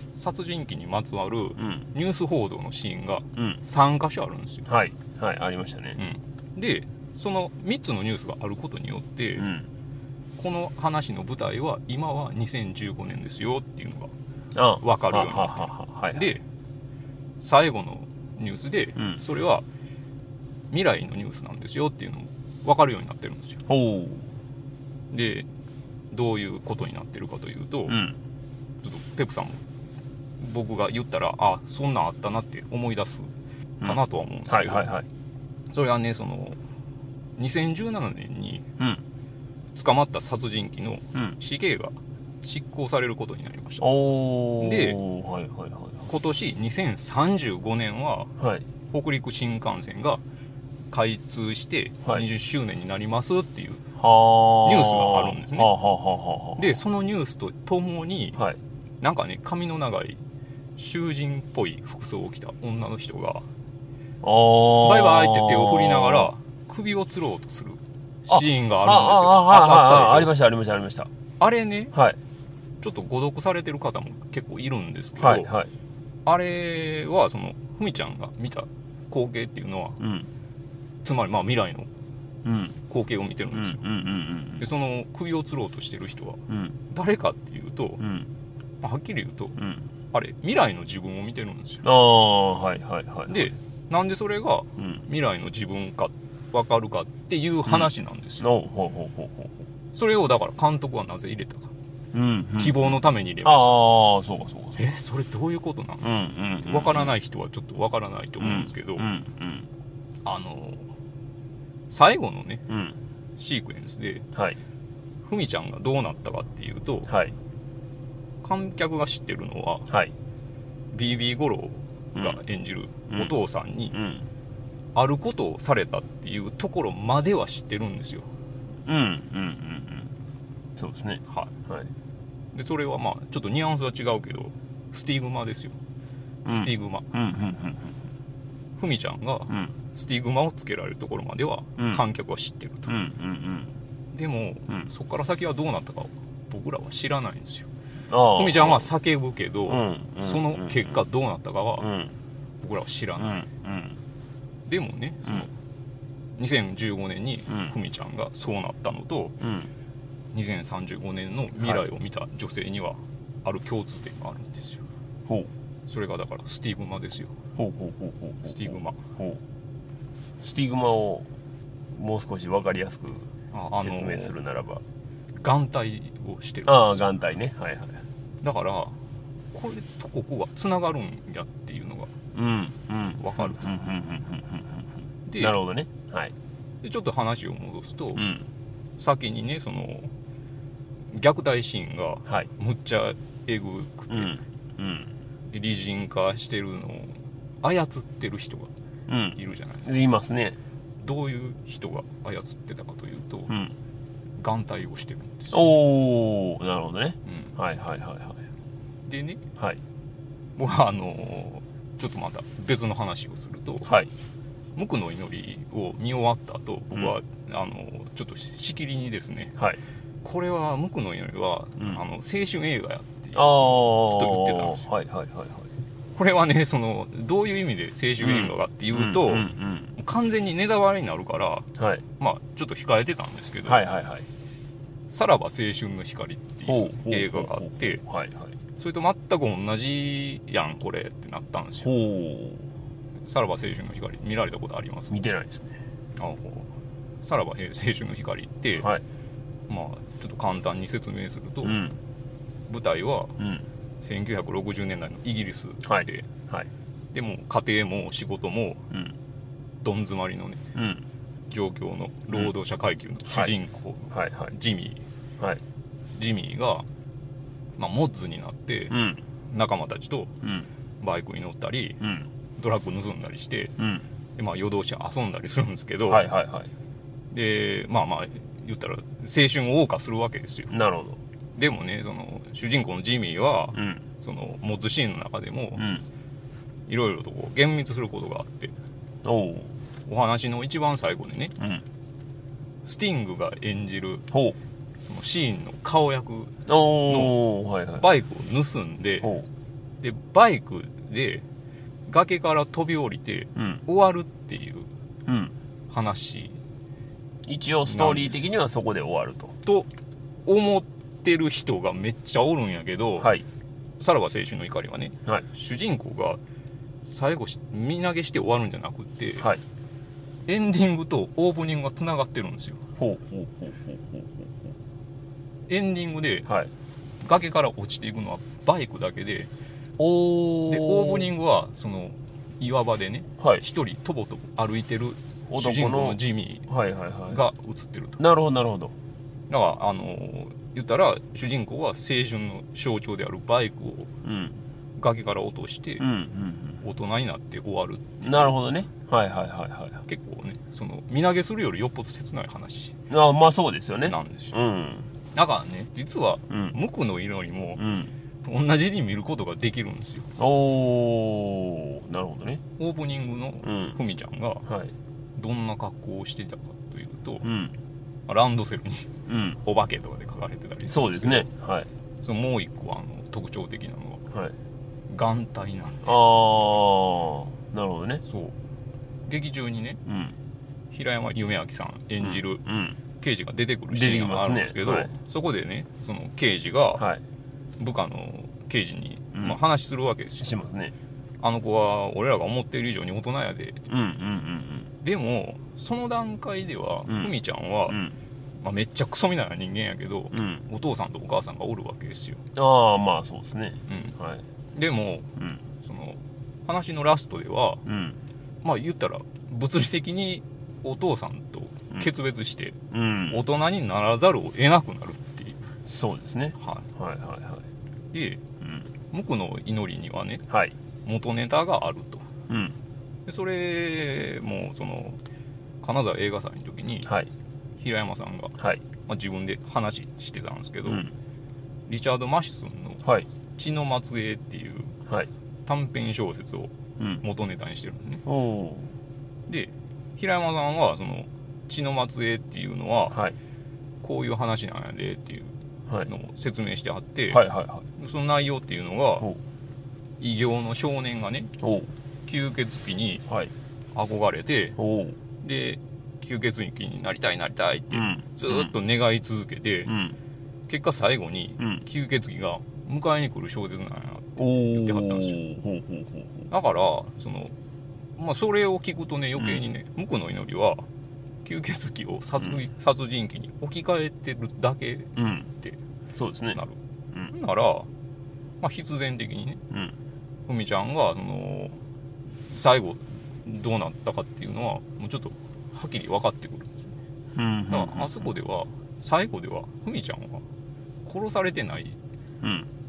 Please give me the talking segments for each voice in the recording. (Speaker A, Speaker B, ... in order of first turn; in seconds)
Speaker A: 0.1-4.7, 6.0-9.5, 10.4-14.1, 14.8-16.4, 17.4-19.6, 20.7-23.6, 25.1-25.5, 26.1-28.0, 28.8-29.6, 30.4-33.3, 33.8-34.9, 35.7-36.6, 37.4-38.7, 39.7-43.9, 44.6-45.0, 46.1-48.3, 48.9-50.2, 50.9-53.8, 54.6-55.7, 56.6-58.5, 59.0-60.2, 60.8-63.5, 64.8-70.3, 71.4-71.9, 72.8-75.5, 76.2-80.0, 81.0-81.9, 82.9-83.8, 84.6-88.0, 88.8-89.6, 90.1-91.8, 93.3-98.5, 99.9-101.7, 102.6-103.7, 104.8-106.1, 106.6-109.1, 110.2-110.9, 111.9-112.6, 113.4-114.3, 115.2-117.1, 118.4-119.9, 120.9-124.0, 124.9-128.3, 131.3-131.5, 132.5-135.7, 136.5-137.1, 138.8-142.9, 144.1-147.7, 148.3-151.9, 152.6-153.4, 154.7-155.5, 156.4-159.4, 160.3-164.8, 165.9-167.3, 168.4-169.0, 173.5-174.3, 175.4-177.1, 178.4-179.0, 179.5-182.1, 183.2-183.7, 185.2-185.6, 186.8-188.3, 189.0-190.1, 191.1-194.4, 195.5-198.7, 199.3-199.9, 201.0-203.5, 204.4-205.7, 207.2-207.5, 209.1-209.4, 210.6-213.9, 214.8-219.6, 220.2-224.8, 226.2-233.8, 235.1-238.0, 238.8-241.9, 243.2-245.2, 246.2-246.7, 247.2-248.9, 249.7-251.8, 252.7-253.4, 254.0-256.3, 257.1-258.9, 259.8-260.6, 261.5-265.0, 266.1-266.9, 267.8-270.4, 271.0-272.0, 272.6-273.8, 274.4-276.2, 277.3-280.7, 281.6-285.8, 286.9-288.7, 290.1-291.6, 292.8-294.3, 295.0-297.4, 298.0-299.3, 300.0-301.4, 302.1-304.9, 305.9-306.6, 307.8-308.4, 310.4-313.3, 314.0-316.4, 317.1-319.5, 320.5-322.8, 325.7-326.5, 327.2-329.5, 330.7-336.7, 337.3-338.2, 339.5-344.1, 345.0-346.1, 346.8-348.5, 350.1-353.0, 354.0-354.6, 355.3-357.8, 358.4-360.3, 362.8-364.6, 365.4-367.5, 368.3-371.5, 372.2-374.2, 375.1-376.4, 378.2-378.5, 379.2-380.0, 380.9-382.6, 383.2-387.0, 387.8-390.5, 391.4-393.8, 395.0-398.0, 398.6-402.4, 403.9-404.1, 404.7-407.8, 408.6-415.6, 416.6-416.9, 418.1-418.4, 419.1-420.5, 421.0-422.3, 423.2-425.2, 425.8-427.1, 427.8-431.1, 431.9-434.9, 435.6-438.2, 439.5-443.2, 444.0-447.4, 448.0-449.3, 450.2-451.5, 452.2-453.2, 453.9-454.8, 455.4-459.9, 460.7-465.4, 466.5-467.5, 468.2-470.9, 471.4-475.8, 477.3-477.9, 478.6-479.6, 480.5-481.8, 482.5-486.9, 487.7-490.4, 491.0-492.0
Speaker B: 1.6-1.8, 4.7-6.0, 9.4-9.7, 14.5-16.3, 23.7-24.3, 27.9-28.1, 34.5-35.0, 43.8-46.1, 48.4-48.6, 54.0-56.6, 64.2-66.3, 68.3-71.1, 75.2-75.7, 80.0-80.3, 82.4-82.7, 83.5-84.7, 86.5-86.8, 88.0-88.3, 89.6-89.8, 91.8-93.5, 94.8-95.0, 98.4-99.5, 102.1-104.8, 106.0-107.1, 108.4-109.7, 112.7-113.0, 117.1-117.3, 123.9-124.3, 128.8-130.1, 130.8-131.9, 136.4-137.9, 139.5-139.7, 142.9-143.7, 148.1-148.9, 149.7-151.0, 151.8-152.1, 153.2-154.0, 157.5-157.7, 159.4-159.7, 167.6-169.4, 170.4-171.3, 171.9-174.8, 176.7-178.0, 182.3-184.8, 185.4-186.3, 188.2-188.5, 194.1-195.1, 199.1-200.6, 203.5-203.7, 205.5-208.4, 223.3-225.7, 228.2-229.9, 231.8-232.0, 233.6-234.3, 236.7-238.5, 241.8-242.7, 245.1-245.8, 251.6-252.0, 253.4-253.6, 255.8-256.7, 260.7-261.0, 264.1-264.5, 268.9-269.2, 270.4-270.7, 272.0-272.3, 273.8-274.0, 276.1-276.7, 280.7-281.2, 283.7-284.0, 285.8-286.0, 289.2-289.7, 294.3-294.6, 296.7-298.0, 299.2-299.5, 303.6-303.8, 305.3-305.5, 307.4-309.6, 313.2-313.4, 323.0-324.3, 330.0-331.3, 333.4-333.6, 335.5-337.4, 338.2-338.9, 344.2-344.6, 346.0-346.8, 348.2-350.0, 353.1-355.1, 356.5-356.7, 357.8-358.1, 360.4-362.6, 363.6-364.0, 364.7-364.9, 367.4-367.7, 369.3-369.6, 370.9-371.9, 376.0-378.2, 380.1-380.3, 382.2-383.0, 383.9-385.1, 390.4-390.9, 393.9-394.9, 397.9-398.1, 400.3-400.6, 402.6-404.4, 407.9-408.2, 412.9-413.4, 415.9-417.6, 418.6-418.9, 420.5-420.7, 422.5-422.8, 430.9-431.1, 438.2-438.9, 447.3-447.8, 451.6-451.9, 454.8-455.2, 457.9-458.7, 459.9-460.1, 464.4-466.5, 475.1-475.5, 476.1-476.6, 487.3-488.3, 492.4-492.7